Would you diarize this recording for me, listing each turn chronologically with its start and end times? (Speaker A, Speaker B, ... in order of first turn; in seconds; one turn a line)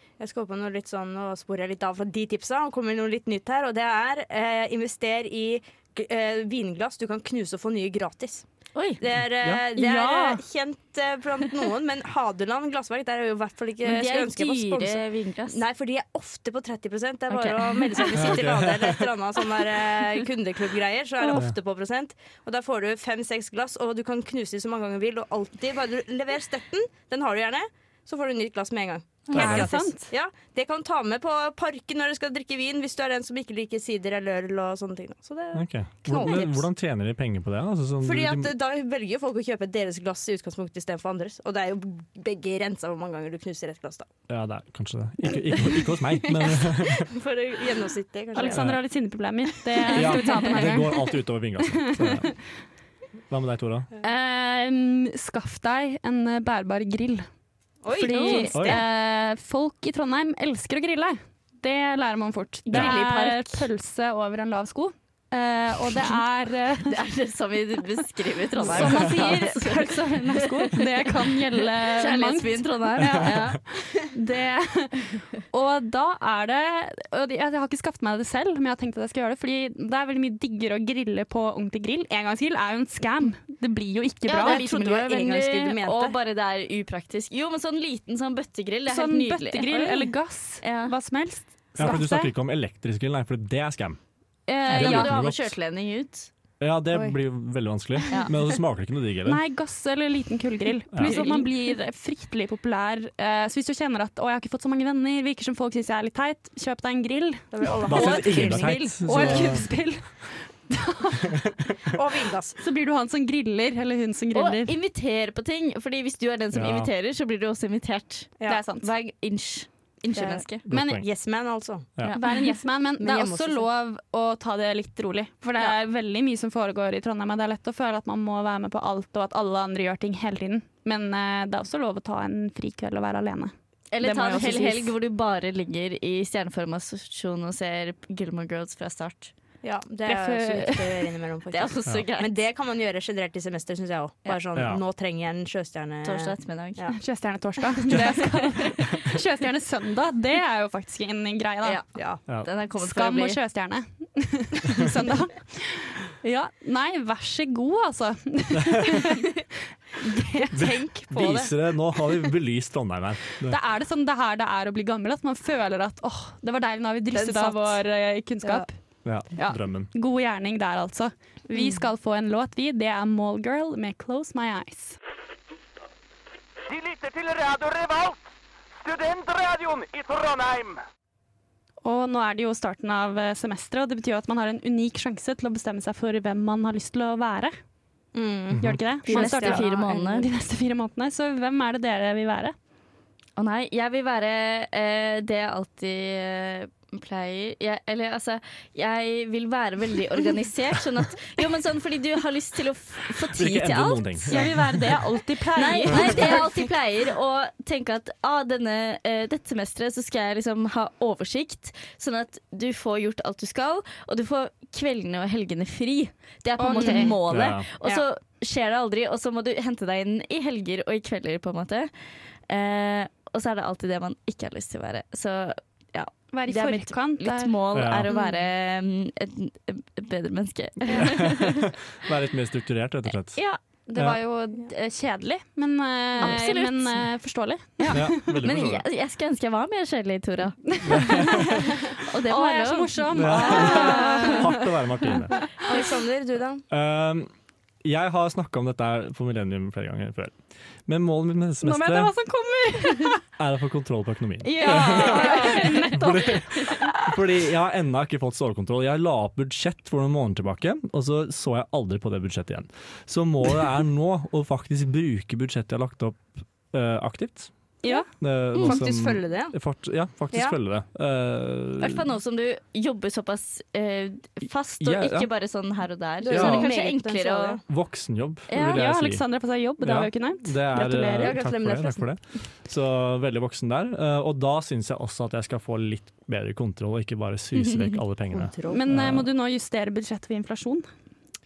Speaker A: 0.2-8.4
Speaker B: 8.7-9.0
Speaker A: 9.0-36.6
Speaker C: 9.2-9.7
Speaker D: 9.8-10.3
Speaker B: 13.8-15.6
Speaker B: 17.3-18.4
Speaker C: 18.1-19.1
Speaker C: 29.3-29.8
Speaker D: 29.3-30.1
Speaker C: 35.5-38.5
Speaker A: 38.0-44.1
Speaker C: 44.3-47.1
Speaker A: 45.3-48.7
Speaker D: 48.3-51.2
Speaker C: 48.5-48.8
Speaker C: 49.9-52.3
Speaker D: 51.7-52.3
Speaker C: 53.3-53.9
Speaker D: 54.0-57.3
Speaker A: 57.8-58.8
Speaker D: 57.9-67.0
Speaker B: 58.1-58.5
Speaker C: 58.5-58.8
Speaker B: 62.7-63.7
Speaker C: 62.7-63.0
Speaker B: 66.8-71.1
Speaker D: 68.7-84.7
Speaker C: 68.7-69.3
Speaker B: 71.7-73.6
Speaker C: 72.9-73.6
Speaker B: 84.3-90.9
Speaker A: 84.3-86.2
Speaker D: 88.9-92.3
Speaker C: 91.8-94.0
Speaker D: 94.5-95.1
Speaker C: 94.6-95.5
Speaker B: 94.7-96.3
Speaker C: 96.6-99.4
Speaker D: 99.2-111.4
Speaker C: 100.9-101.3
Speaker B: 101.0-101.4
Speaker A: 107.5-109.6
Speaker C: 107.8-109.7
Speaker A: 111.9-112.6
Speaker D: 112.6-114.7
Speaker B: 114.3-120.6
Speaker C: 116.5-116.9
Speaker D: 118.5-118.9
Speaker A: 120.1-120.4
Speaker C: 120.7-121.1
Speaker D: 120.7-121.0
Speaker A: 121.0-122.2
Speaker D: 122.1-133.5
Speaker A: 123.0-123.7
Speaker B: 133.9-139.3
Speaker A: 134.0-134.9
Speaker A: 139.6-146.9
Speaker B: 140.0-142.3
Speaker C: 144.5-144.8
Speaker B: 146.0-146.9
Speaker D: 146.9-151.8
Speaker B: 147.9-148.7
Speaker C: 147.9-148.7
Speaker B: 151.6-153.4
Speaker A: 151.9-152.2
Speaker D: 152.8-159.2
Speaker D: 160.0-160.5
Speaker A: 160.4-162.2
Speaker C: 160.5-163.6
Speaker D: 163.5-168.7
Speaker A: 167.1-167.8
Speaker A: 168.4-168.7
Speaker C: 169.0-169.9
Speaker D: 169.3-175.0
Speaker A: 171.5-171.8
Speaker E: 176.7-178.2
Speaker E: 178.8-180.8
Speaker D: 181.8-187.5
Speaker A: 188.1-190.2
Speaker C: 188.5-188.8
Speaker D: 188.6-192.5
Speaker B: 189.1-190.2
Speaker B: 193.4-204.3
Speaker C: 203.2-205.2
Speaker D: 204.3-206.5
Speaker B: 205.6-221.9
Speaker C: 205.9-206.2
Speaker A: 216.6-217.1
Speaker D: 216.6-217.1
Speaker C: 217.3-217.7
Speaker B: 222.5-231.7
Speaker D: 226.3-227.5
Speaker C: 227.7-228.1
Speaker A: 228.1-228.3
Speaker C: 230.9-233.4
Speaker D: 233.9-238.3
Speaker B: 236.2-237.0
Speaker C: 237.9-238.8
Speaker B: 238.3-244.1
Speaker D: 240.8-241.7
Speaker C: 240.8-241.8
Speaker D: 242.2-244.4
Speaker C: 243.1-245.5
Speaker A: 243.4-244.3
Speaker A: 245.6-246.6
Speaker C: 246.7-247.3
Speaker C: 247.8-252.1
Speaker D: 251.6-253.2
Speaker C: 253.4-267.5
Speaker D: 254.6-256.7
Speaker A: 254.6-255.9
Speaker B: 254.6-255.9
Speaker C: 268.2-272.1
Speaker B: 268.5-268.8
Speaker A: 268.6-269.5
Speaker B: 271.8-277.6
Speaker C: 274.8-275.3
Speaker A: 276.2-277.6
Speaker C: 276.3-276.7
Speaker C: 277.7-279.2
Speaker B: 278.5-278.8
Speaker D: 278.7-281.4
Speaker C: 279.8-289.3
Speaker A: 281.2-282.1
Speaker B: 287.6-287.9
Speaker A: 288.3-288.9
Speaker D: 288.7-290.9